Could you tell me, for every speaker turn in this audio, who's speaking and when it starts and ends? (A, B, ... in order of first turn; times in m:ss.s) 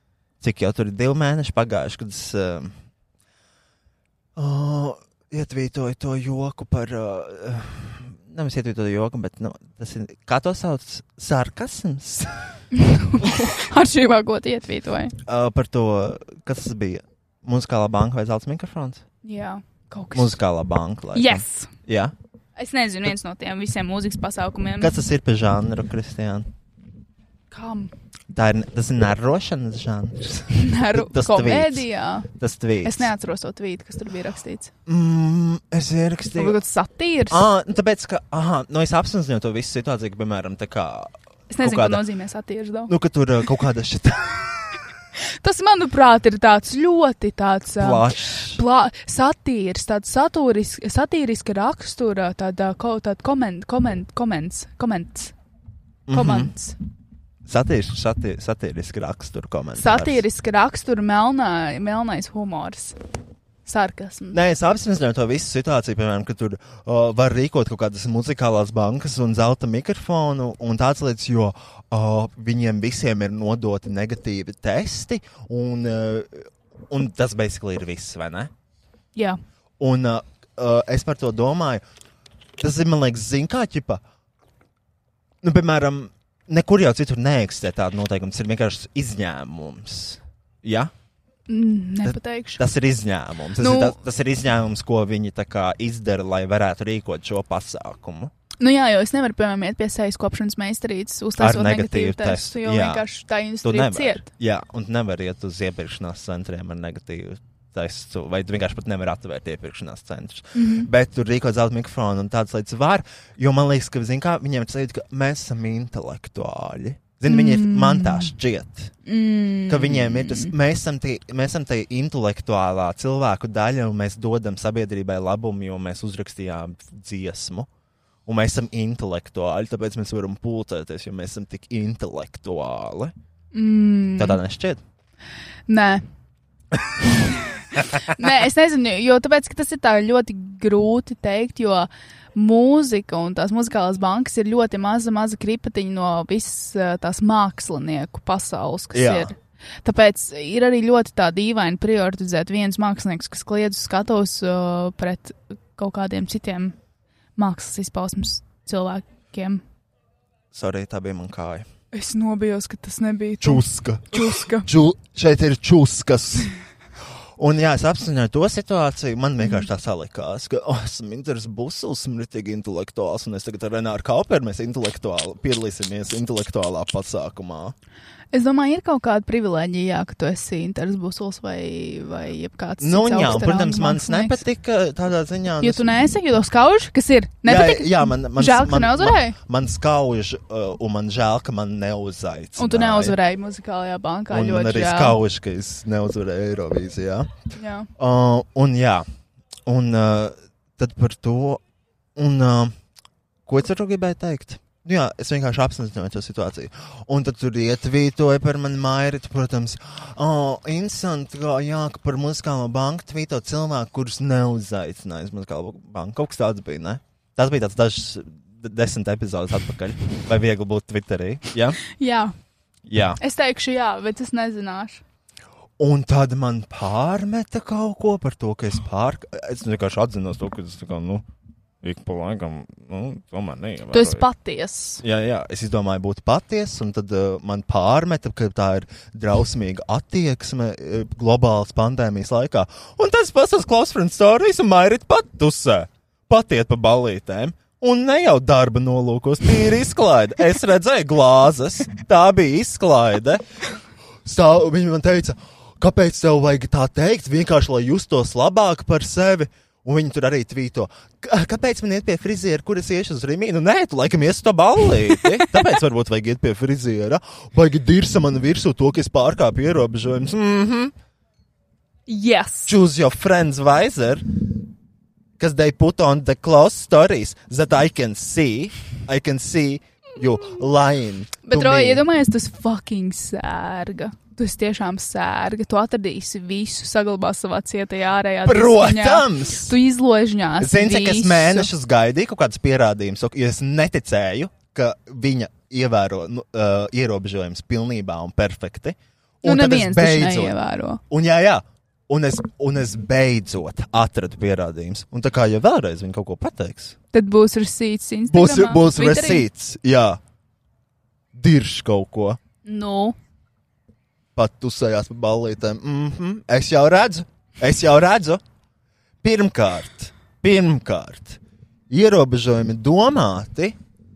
0:00.4-0:02.7 A
0:04.4-0:12.5 A
0:12.7-0:15.2 B
0:15.2-0:19.0 A
0:19.2-0:20.4 B
0:20.1-0:22.1 A
0:21.1-0:21.7 B
0:22.6-0:24.9 B
0:24.8-0:26.5 A
0:27.5-0:27.9 B
0:28.3-0:33.1 A
0:30.5-0:32.3 B
0:32.8-0:34.7 B
0:34.8-0:36.6 A
0:36.3-0:37.4 B
0:37.3-0:42.0 A
0:41.5-0:42.9 B
0:42.9-0:44.8 A
0:45.2-0:55.3 B
0:47.8-0:48.6 A
0:56.1-0:56.5 A
0:56.1-0:56.8 B
0:57.4-1:00.2 A
0:59.7-1:03.0 B
1:03.6-1:04.4 B
1:04.3-1:18.5 A
1:19.1-1:19.4 B
1:19.8-1:21.8 A
1:22.6-1:24.0 A
1:25.4-1:30.9 A
1:31.5-1:32.7 B
1:32.0-1:38.3 A
1:33.6-1:34.0 B
1:38.6-1:44.3 B
1:41.4-1:43.0 A
1:43.6-1:58.9 A
1:50.5-1:50.9 B
1:57.3-1:58.3 B
1:59.0-2:00.5 B
1:59.7-2:07.7 A
2:08.2-2:13.1 A
2:13.5-2:14.4 B
2:14.2-2:14.8 A
2:15.7-2:16.0 B
2:17.0-2:36.8 B
2:28.9-2:29.3 A
2:37.4-2:39.6 B
2:40.5-2:41.6 A
2:41.9-2:44.7 B
2:43.4-2:46.5 A
2:47.4-2:57.7 A
2:58.3-3:04.4 B
3:02.8-3:05.9 A
3:05.6-3:09.4 B
3:07.4-3:13.2 A
3:12.6-3:15.2 B
3:14.3-3:17.3 A
3:17.6-3:17.9 B
3:18.0-3:19.0 A
3:19.7-3:21.6 A
3:22.2-3:22.7 A
3:23.5-3:41.8 A
3:41.8-3:42.3 B
3:42.9-3:43.2 A
3:43.2-3:45.0 B
3:45.8-3:51.2 A
3:51.8-3:54.2 A
3:53.9-3:55.0 B
3:55.0-4:13.4 A
4:14.2-4:30.9 A
4:32.1-4:32.8 B
4:32.7-4:34.2 A
4:35.4-4:42.0 A
4:41.4-4:51.7 B
4:48.4-4:49.8 A
4:50.6-5:00.6 A
4:59.4-5:01.0 B
5:01.1-5:06.9 A
5:07.1-5:09.5 B
5:08.3-5:10.2 A
5:11.3-5:12.4 A
5:12.6-5:13.2 B
5:14.4-5:18.4 A
5:19.2-5:23.8 A